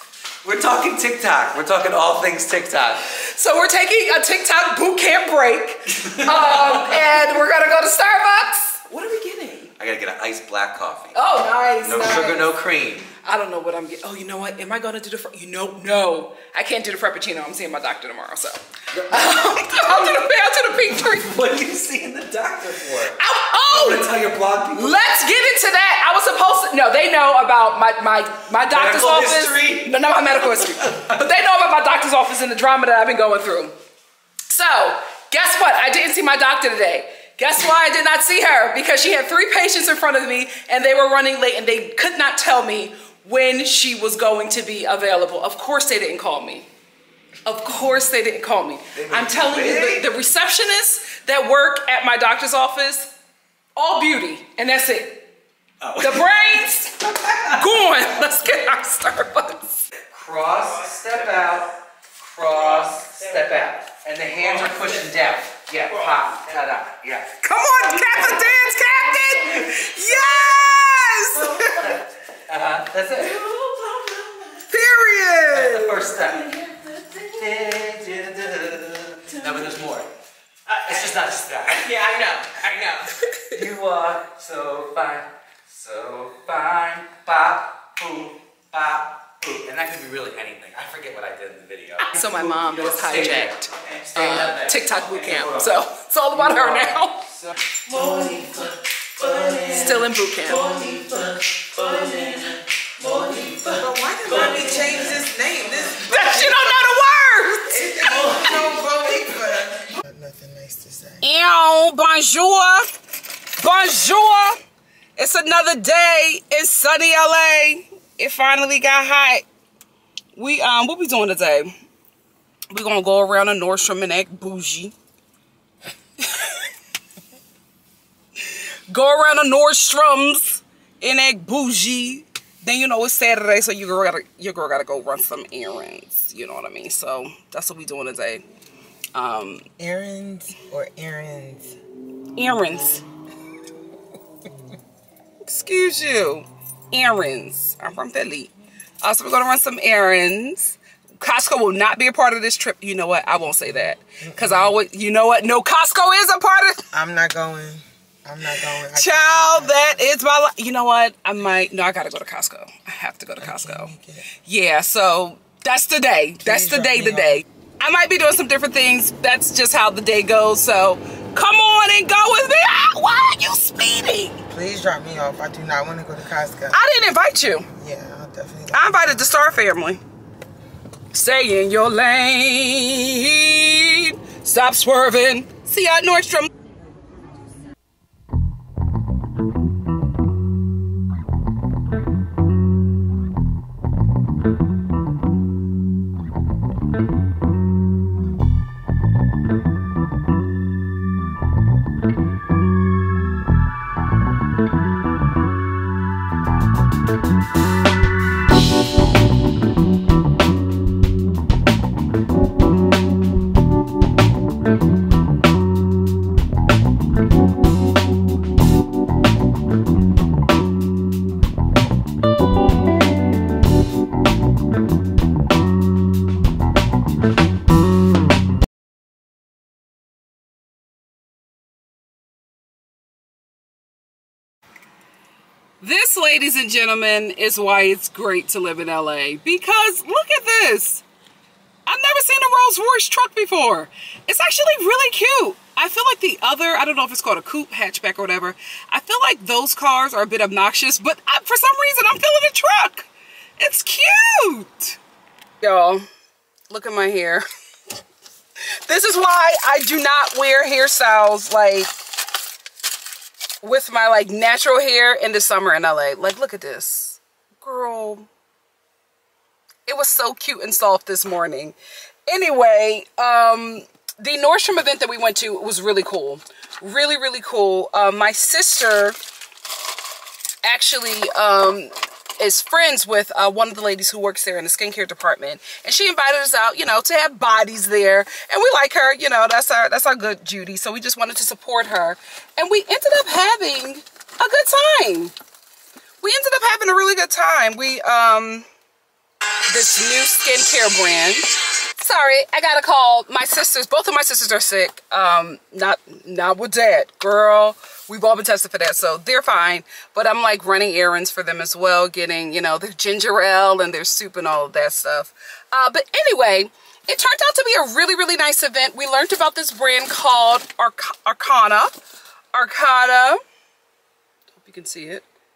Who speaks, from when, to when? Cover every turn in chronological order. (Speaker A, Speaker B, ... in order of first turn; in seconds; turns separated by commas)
Speaker A: 0.4-3.0, Speaker B: 3.3-9.8, Speaker A: 6.1-6.9, Speaker A: 9.8-13.1, Speaker B: 11.1-12.6, Speaker B: 13.2-21.4, Speaker A: 18.9-20.2, Speaker A: 20.9-25.0, Speaker B: 23.2-24.1, Speaker B: 24.7-33.8, Speaker A: 28.7-29.9, Speaker A: 30.6-31.2, Speaker B: 34.5-46.7, Speaker B: 47.4-53.1, Speaker A: 48.9-50.0, Speaker B: 53.8-55.3, Speaker A: 55.8-56.3, Speaker B: 56.0-59.8, Speaker A: 60.1-67.3, Speaker B: 67.4-72.0, Speaker A: 67.9-68.5, Speaker A: 69.5-74.6, Speaker B: 74.7-76.2, Speaker A: 75.5-80.1, Speaker A: 80.7-105.2, Speaker B: 83.2-83.5, Speaker B: 92.1-97.2, Speaker B: 99.7-100.8, Speaker C: 103.8-106.9, Speaker B: 106.1-108.7, Speaker C: 107.7-111.2, Speaker B: 111.2-112.9, Speaker B: 113.6-114.6, Speaker B: 115.2-119.4, Speaker B: 120.4-121.8, Speaker B: 122.7-124.9, Speaker B: 126.2-126.6, Speaker B: 128.9-138.4, Speaker B: 139.1-139.7, Speaker C: 139.8-141.7, Speaker B: 142.4-143.0, Speaker B: 145.4-148.5, Speaker B: 149.0-156.9, Speaker C: 154.2-154.7, Speaker C: 156.9-160.0, Speaker B: 158.9-174.4, Speaker C: 163.4-164.2, Speaker C: 166.4-167.4, Speaker C: 174.5-176.8, Speaker B: 176.7-177.7, Speaker C: 177.7-179.3, Speaker B: 178.7-180.0, Speaker B: 181.1-186.5, Speaker B: 235.8-241.0, Speaker B: 241.9-253.1, Speaker B: 253.6-255.0, Speaker B: 255.6-256.1, Speaker B: 256.7-257.4, Speaker B: 258.9-261.9, Speaker B: 263.6-268.3, Speaker B: 269.9-271.8, Speaker B: 272.3-279.1, Speaker B: 280.6-295.4, Speaker B: 296.2-298.6, Speaker B: 299.7-322.0, Speaker B: 322.5-323.4, Speaker B: 324.6-325.2